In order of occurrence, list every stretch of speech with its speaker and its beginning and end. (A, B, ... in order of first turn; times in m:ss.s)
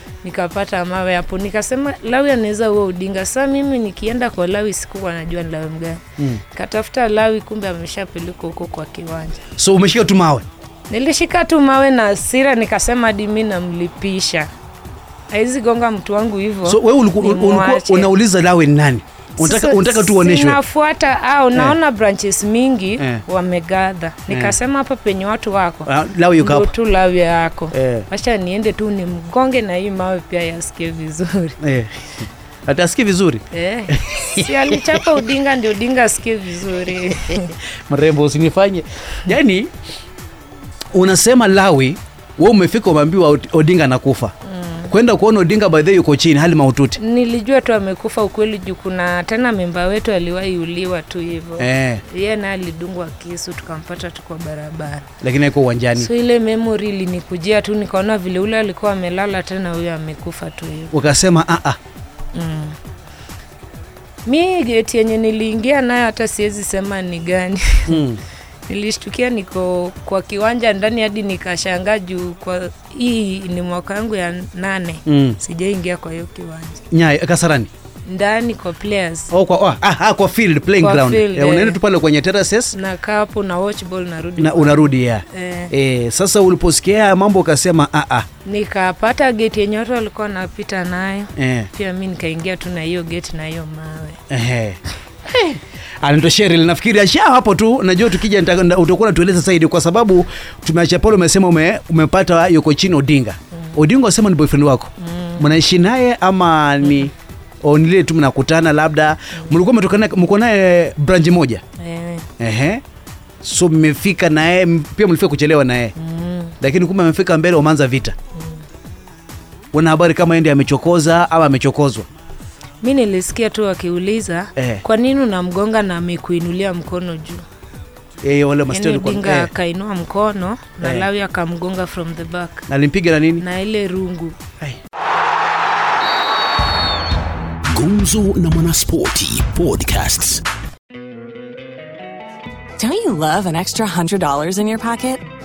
0:00.2-0:09.4 A
0:09.6-0:10.4 B
0:10.9-0:14.5 A
0:15.3-0:18.1 A
0:16.6-0:20.6 B
0:19.4-0:31.6 A
0:24.3-0:24.6 B
0:25.8-0:26.7 B
0:27.7-0:28.1 B
0:31.6-0:35.0 B
0:33.5-0:37.5 A
0:37.9-0:39.7 B
0:40.9-0:44.3 B
0:44.5-0:44.9 A
0:44.9-0:47.0 B
0:47.0-0:55.1 A
0:51.6-0:52.0 B
0:55.2-0:56.1 B
0:56.0-1:01.0 A
1:00.9-1:01.8 B
1:02.3-1:02.8 A
1:04.2-1:08.1 A
1:07.9-1:08.2 B
1:08.7-1:16.8 A
1:15.1-1:15.4 B
1:16.9-1:17.7 B
1:18.0-1:19.3 A
1:19.3-1:22.7 B
1:20.8-1:21.8 A
1:22.7-1:25.7 A
1:24.4-1:28.3 B
1:28.4-1:34.2 A
1:31.4-1:31.7 B
1:34.3-1:47.1 B
1:45.0-1:45.4 A
1:47.6-1:51.6 B
1:51.8-1:52.3 A
1:52.4-1:52.8 B
1:53.4-1:55.9 B
1:56.0-1:56.6 A
1:56.6-1:58.1 B
1:59.7-2:02.1 B
2:02.8-2:07.4 A
2:04.6-2:04.8 B
2:08.2-2:09.5 B
2:08.7-2:12.7 A
2:10.8-2:11.1 B
2:12.7-2:13.4 B
2:13.4-2:14.4 A
2:17.7-2:20.4 C
2:22.8-2:25.2 D